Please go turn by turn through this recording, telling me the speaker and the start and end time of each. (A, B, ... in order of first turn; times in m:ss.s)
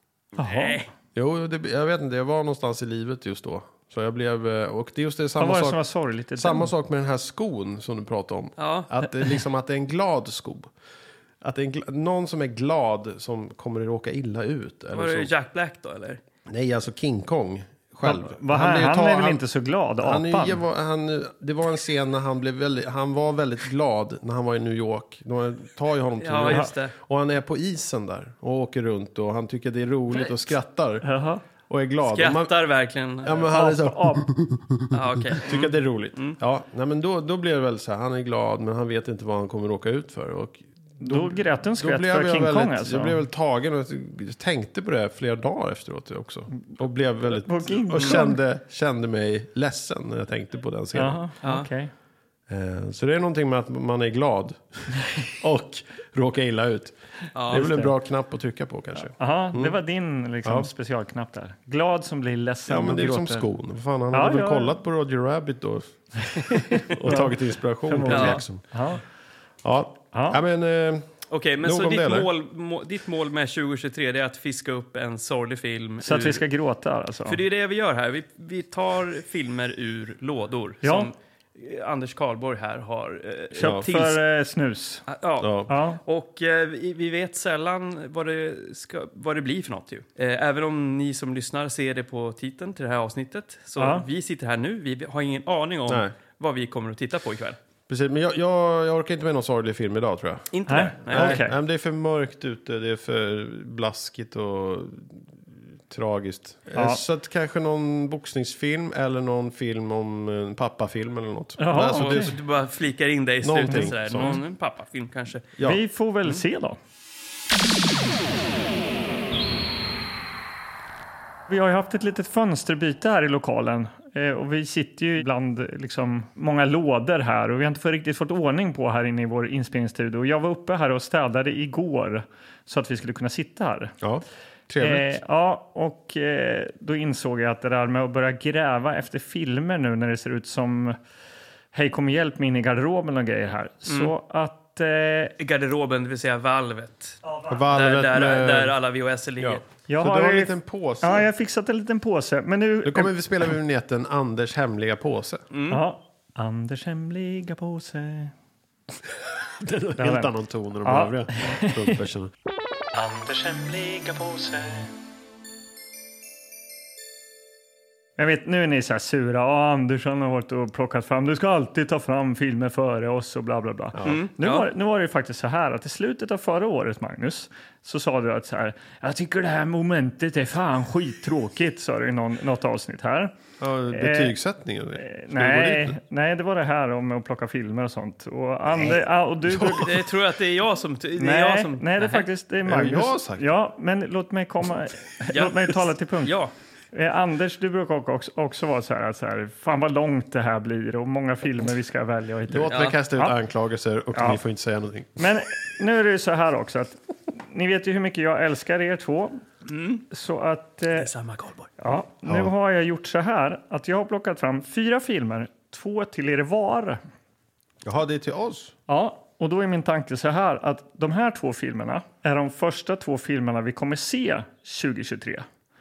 0:00.4-0:00.9 A
0:00.4-0:00.8 B
0:01.2-0:05.8 C
0:05.4-0:06.7 B
0:06.4-0:10.7 C
0:08.6-0:09.0 A
0:11.4-0:15.3 C
0:14.9-0:16.2 A
0:16.5-0:19.4 C
0:18.0-0:20.6 B
0:20.0-0:31.1 C
0:26.2-0:26.9 A
0:31.0-0:31.4 B
0:31.7-0:32.6 C
0:32.0-0:33.5 A
0:33.2-0:51.2 C
0:33.5-0:34.3 B
0:34.9-0:36.4 A
0:41.0-0:43.2 B
0:47.3-0:48.4 B
0:50.9-0:51.9 B
0:51.4-0:51.7 A
0:52.5-0:57.0 C
0:57.3-0:57.7 A
0:57.5-0:59.8 C
0:57.5-0:57.9 B
0:59.0-1:03.5 B
1:02.7-1:08.6 C
1:04.1-1:04.8 B
1:06.6-1:09.0 B
1:08.1-1:08.4 A
1:09.6-1:12.3 C
1:10.1-1:10.4 B
1:11.3-1:16.4 A
1:16.0-1:17.4 B
1:17.3-1:24.2 A
1:20.8-1:21.1 B
1:23.6-1:25.0 B
1:25.1-1:37.6 A
1:25.4-1:25.7 C
1:25.7-1:26.0 B
1:33.8-1:34.1 B
1:35.9-1:36.1 C
1:37.9-1:40.5 C
1:40.5-1:41.4 A
1:40.7-1:41.5 B
1:41.1-1:45.2 C
1:45.9-1:52.4 C
1:46.8-1:47.0 B
1:51.6-1:52.3 B
1:51.9-1:55.5 A
1:53.4-1:54.4 C
1:53.7-1:54.4 B
1:55.6-1:56.4 C
1:55.6-1:56.8 B
2:01.5-2:14.0 B
2:14.0-2:15.1 C
2:14.8-2:21.0 B
2:21.7-2:25.3 B
2:23.9-2:24.1 A
2:25.4-2:29.6 A
2:27.2-2:27.6 B
2:27.5-2:28.8 C
2:29.4-2:31.3 C
2:29.9-2:33.2 B
2:32.8-2:35.4 C
2:35.5-2:35.8 A
2:35.7-2:38.3 B
2:39.6-2:42.3 C
2:40.0-2:40.3 B
2:40.8-2:42.0 B
2:42.9-2:44.9 B
2:48.2-3:03.4 B
2:54.0-2:54.2 C
2:54.0-2:54.7 A
3:03.6-3:06.0 C
3:03.9-3:04.4 B
3:05.0-3:10.0 B
3:09.5-3:09.8 C
3:09.6-3:12.3 A
3:11.2-3:16.4 B
3:12.6-3:13.4 C
3:15.3-3:16.5 A
3:16.9-3:23.4 B
3:22.5-3:25.2 C
3:22.7-3:23.0 A
3:25.2-3:29.4 B
3:29.7-3:30.0 A
3:30.1-3:31.1 B
3:30.9-3:31.7 A
3:31.8-3:37.0 B
3:32.2-3:32.5 C
3:37.8-3:38.7 C
3:38.9-3:45.4 B